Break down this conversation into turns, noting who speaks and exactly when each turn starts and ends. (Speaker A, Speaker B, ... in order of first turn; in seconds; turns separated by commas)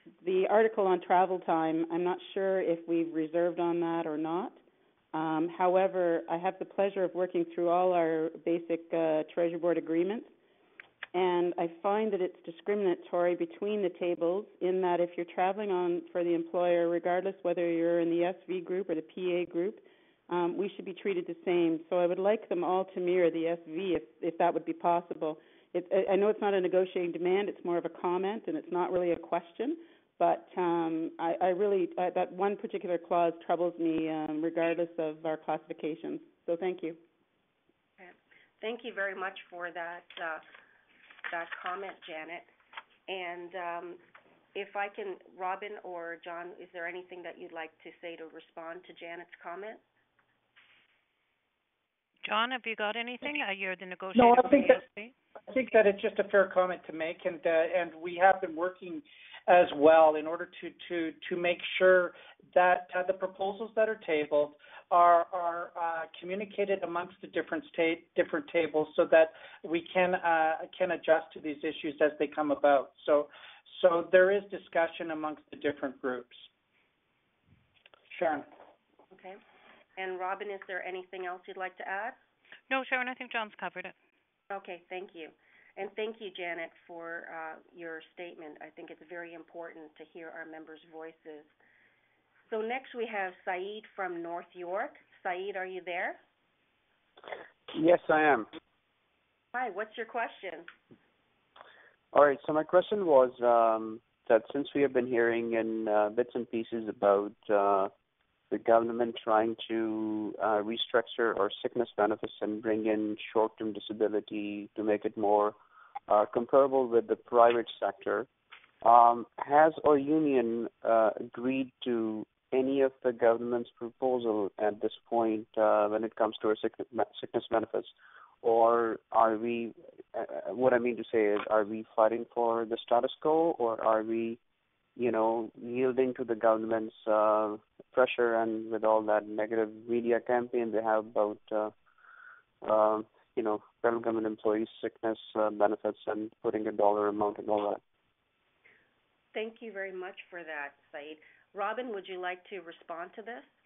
Speaker A: 0.2-4.6, Speaker A: 5.1-10.3, Speaker A: 11.1-37.0, Speaker B: 38.0-40.4, Speaker B: 41.3-42.5, Speaker B: 43.1-44.0, Speaker B: 44.5-49.8, Speaker C: 52.2-55.1, Speaker D: 54.2-54.8, Speaker D: 55.5-76.5, Speaker D: 78.1-78.5, Speaker B: 79.1-79.4, Speaker B: 80.0-82.2, Speaker C: 82.7-84.0, Speaker B: 84.5-91.5, Speaker B: 92.5-96.2, Speaker E: 97.7-98.5, Speaker B: 99.5-100.7, Speaker E: 102.1-107.9, Speaker E: 108.5-115.6, Speaker E: 116.1-118.3, Speaker E: 118.8-127.9, Speaker E: 128.4-134.4, Speaker E: 135.0-141.7, Speaker E: 142.6-147.8, Speaker B: 149.3-153.6